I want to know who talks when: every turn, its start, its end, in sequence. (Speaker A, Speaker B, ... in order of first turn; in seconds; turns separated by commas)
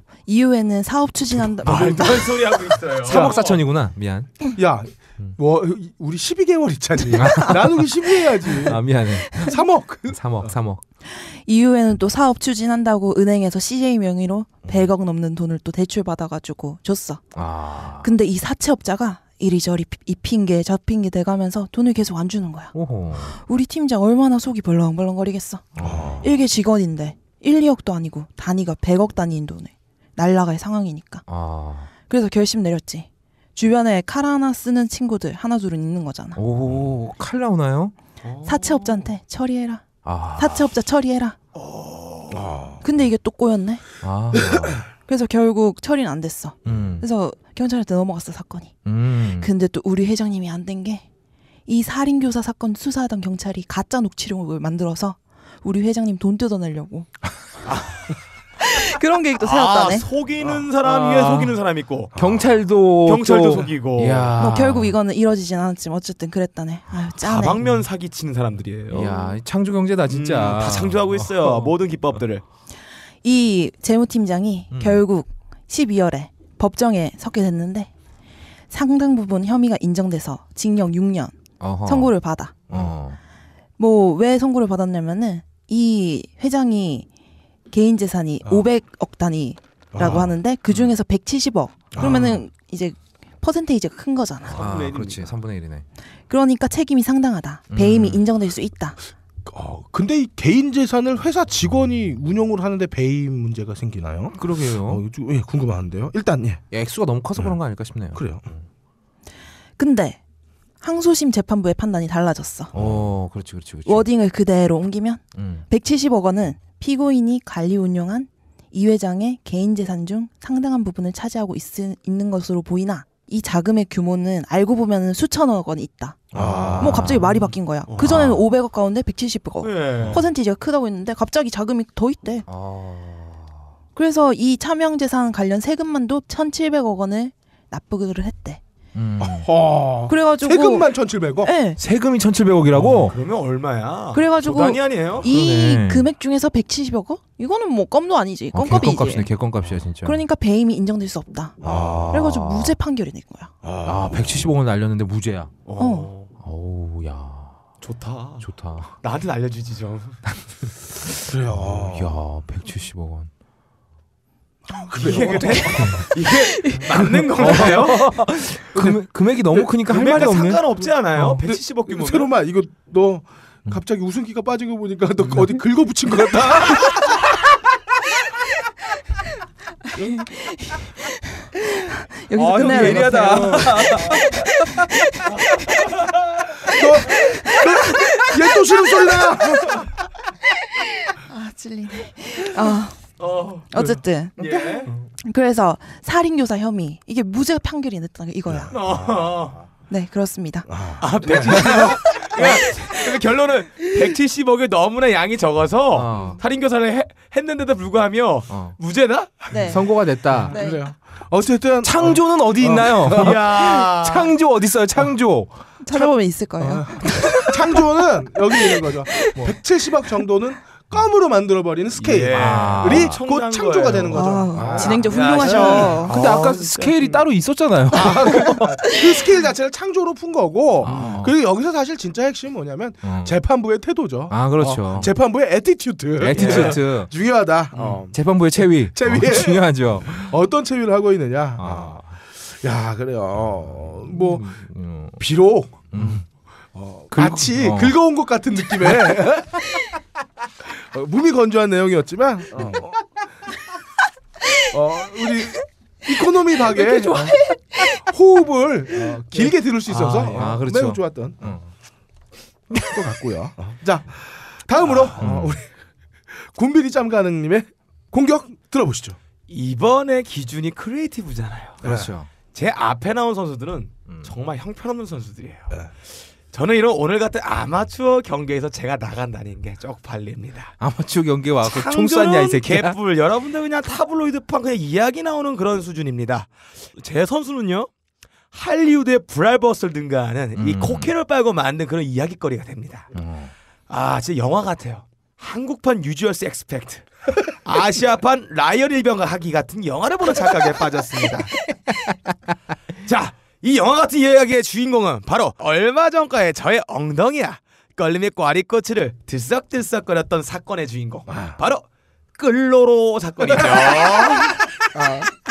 Speaker A: 0.3-2.3, Speaker B: 1.6-2.0, Speaker C: 1.6-3.6, Speaker B: 3.0-4.5, Speaker D: 3.0-3.4, Speaker D: 4.5-10.4, Speaker B: 7.1-7.9, Speaker B: 8.6-9.6, Speaker B: 10.1-10.8, Speaker A: 11.1-17.2, Speaker B: 17.4-18.1, Speaker A: 18.0-31.2, Speaker B: 22.7-23.4, Speaker B: 25.8-26.2, Speaker D: 25.8-26.3, Speaker B: 31.3-31.9, Speaker A: 32.0-36.4, Speaker B: 36.4-37.9, Speaker C: 38.2-39.0, Speaker A: 38.5-39.9, Speaker B: 40.0-40.7, Speaker A: 40.4-41.4, Speaker C: 41.5-42.5, Speaker D: 42.3-42.9, Speaker A: 42.8-43.8, Speaker B: 44.0-44.8, Speaker A: 44.9-48.8, Speaker B: 46.6-47.0, Speaker B: 48.9-49.5, Speaker A: 49.4-51.0, Speaker A: 51.7-57.2, Speaker C: 57.7-58.1, Speaker A: 58.6-60.1, Speaker C: 59.4-62.1, Speaker B: 60.8-61.5, Speaker B: 62.1-65.0, Speaker D: 62.2-62.4, Speaker C: 63.0-64.4, Speaker A: 64.4-67.6, Speaker C: 67.2-69.3, Speaker B: 68.9-71.7, Speaker C: 70.1-72.4, Speaker A: 73.2-77.9, Speaker B: 74.7-75.0, Speaker A: 78.7-82.8, Speaker B: 81.6-82.1, Speaker B: 82.7-83.2, Speaker A: 83.8-87.1, Speaker A: 87.7-94.6, Speaker D: 89.9-90.3, Speaker B: 90.7-90.9, Speaker D: 91.9-92.4, Speaker B: 92.0-92.4, Speaker C: 94.5-95.3, Speaker B: 94.5-95.9, Speaker A: 96.3-99.0, Speaker B: 97.7-98.2, Speaker D: 99.5-106.6, Speaker B: 104.4-105.0, Speaker B: 106.7-108.2, Speaker D: 108.1-108.5, Speaker A: 109.8-110.2, Speaker A: 110.8-112.7, Speaker D: 112.7-113.0, Speaker B: 112.7-114.1, Speaker A: 113.9-132.4, Speaker B: 115.3-115.7, Speaker D: 126.3-127.2, Speaker B: 126.3-128.4, Speaker C: 127.9-128.3, Speaker C: 129.6-130.2, Speaker B: 132.5-133.6, Speaker A: 134.0-138.6, Speaker B: 138.9-139.5, Speaker D: 139.2-141.5, Speaker A: 140.1-140.9, Speaker A: 141.4-141.8, Speaker B: 141.8-143.2, Speaker C: 142.7-145.3, Speaker A: 144.1-149.3, Speaker B: 145.2-146.1, Speaker B: 148.5-150.2, Speaker A: 150.0-151.6, Speaker D: 151.6-152.3, Speaker B: 151.6-152.8, Speaker A: 152.1-153.5, Speaker D: 153.6-154.4, Speaker B: 153.8-155.6, Speaker C: 155.7-156.3, Speaker A: 155.8-156.1, Speaker B: 156.4-157.6, Speaker C: 157.8-158.4, Speaker B: 158.4-158.9, Speaker C: 159.0-160.2, Speaker D: 161.3-162.2, Speaker B: 161.5-163.3, Speaker D: 164.7-166.0, Speaker C: 165.0-168.2, Speaker B: 165.8-166.1, Speaker A: 166.4-166.9, Speaker B: 166.9-171.4, Speaker C: 169.6-172.3, Speaker D: 171.4-177.2, Speaker A: 180.0-185.9, Speaker B: 182.3-184.9, Speaker D: 182.8-183.8, Speaker D: 186.6-189.9, Speaker A: 186.7-189.7, Speaker A: 190.8-193.0, Speaker C: 193.2-193.7, Speaker A: 193.7-198.7, Speaker C: 194.4-194.9, Speaker C: 198.7-199.6, Speaker D: 198.8-199.2, Speaker A: 199.9-200.9, Speaker D: 200.7-202.1, Speaker C: 201.0-209.6, Speaker A: 201.5-203.1, Speaker B: 205.9-206.4, Speaker B: 208.5-208.8, Speaker A: 209.5-209.8, Speaker B: 209.6-210.5, Speaker D: 210.3-213.4, Speaker A: 210.5-210.9, Speaker B: 211.8-216.1, Speaker C: 213.1-214.3, Speaker A: 215.8-217.9, Speaker D: 216.6-226.0, Speaker A: 218.5-219.5, Speaker C: 222.0-227.2, Speaker B: 222.3-223.2, Speaker A: 224.1-226.1, Speaker B: 224.6-224.9, Speaker B: 226.0-228.7, Speaker D: 227.9-238.2, Speaker B: 230.8-231.3, Speaker B: 233.0-233.4, Speaker B: 234.3-235.1, Speaker B: 236.2-237.1, Speaker C: 236.3-236.8, Speaker B: 237.8-240.3, Speaker D: 238.9-244.5, Speaker B: 241.6-242.1, Speaker B: 244.0-245.2, Speaker D: 245.2-246.2, Speaker B: 245.9-246.3, Speaker D: 246.7-249.7, Speaker B: 247.1-248.0, Speaker D: 250.7-253.1, Speaker B: 252.6-252.8, Speaker D: 254.7-257.4, Speaker A: 255.2-255.6, Speaker A: 256.6-258.0, Speaker D: 258.0-261.6, Speaker A: 259.1-259.4, Speaker B: 259.9-261.7, Speaker C: 259.9-260.5, Speaker B: 262.7-263.1, Speaker D: 262.8-265.7, Speaker B: 265.0-265.6, Speaker D: 266.3-269.2, Speaker C: 269.5-271.8, Speaker D: 271.8-272.1, Speaker B: 271.8-272.3, Speaker C: 272.5-275.9, Speaker C: 276.5-280.8, Speaker B: 280.8-283.0, Speaker C: 281.6-287.9, Speaker C: 288.5-293.1, Speaker B: 290.6-291.1, Speaker B: 293.1-293.5, Speaker C: 293.9-301.5, Speaker C: 303.1-311.9, Speaker C: 312.4-314.6, Speaker D: 314.9-315.3